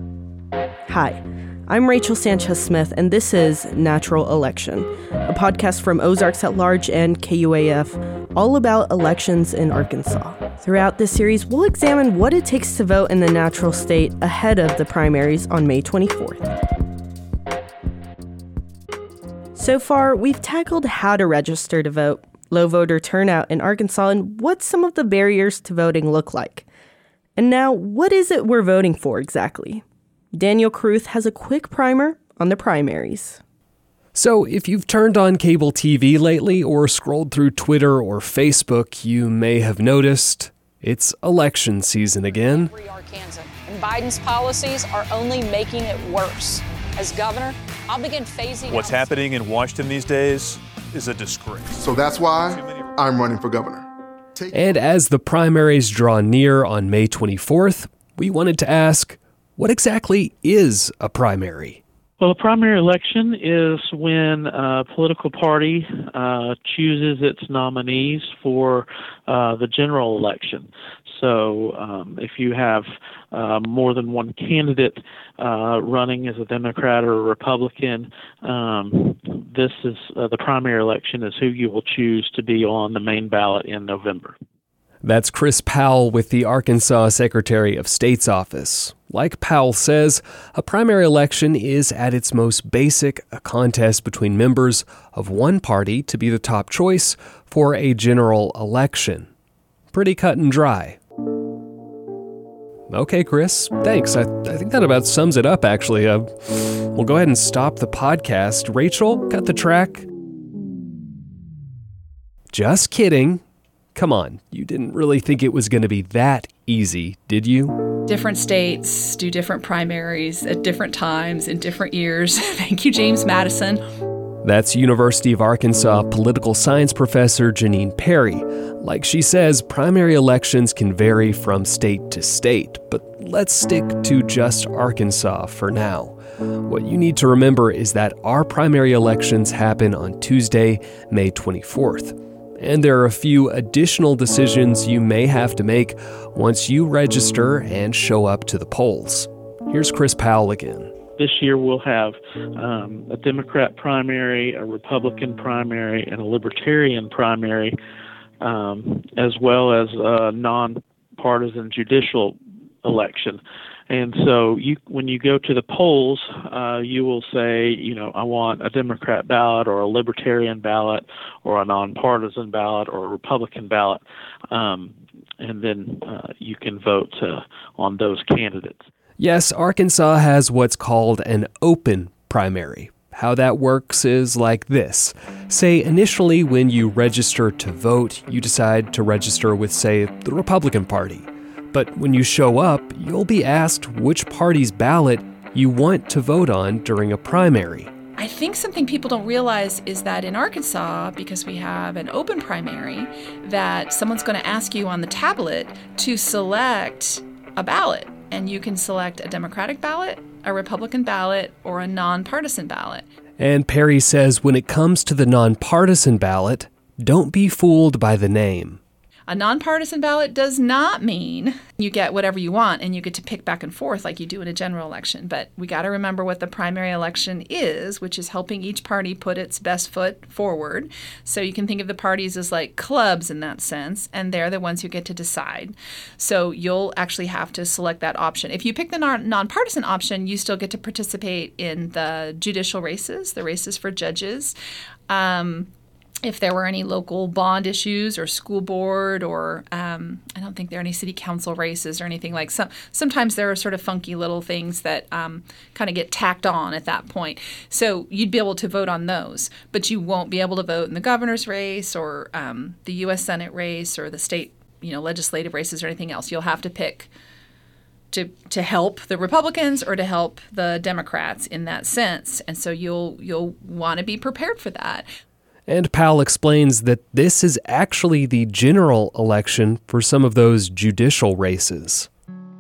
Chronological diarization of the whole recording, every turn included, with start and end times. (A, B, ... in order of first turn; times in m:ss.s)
0:00.9-0:16.5 A
0:19.6-0:26.6 A
0:27.4-0:29.8 A
0:30.3-0:33.4 A
0:34.2-0:42.7 B
0:42.7-0:46.5 C
0:47.0-0:48.8 C
0:49.6-0:51.8 D
0:51.9-0:53.8 E
0:52.5-0:52.8 D
0:54.5-1:01.8 B
1:02.2-1:24.4 F
1:25.0-1:39.3 B
1:39.9-1:41.0 B
1:42.9-1:50.0 B
1:52.5-1:53.4 B
1:54.0-1:57.8 B
1:58.1-2:03.8 G
2:04.4-2:30.9 B
2:31.2-2:37.8 F
2:38.4-2:58.9 F
2:59.2-3:17.9 B
3:18.2-3:33.0 G
3:33.4-3:38.8 B
3:39.3-4:04.5 G
4:05.1-4:05.7 G
4:06.2-4:27.1 G
4:28.1-4:35.1 G
4:35.7-4:42.1 B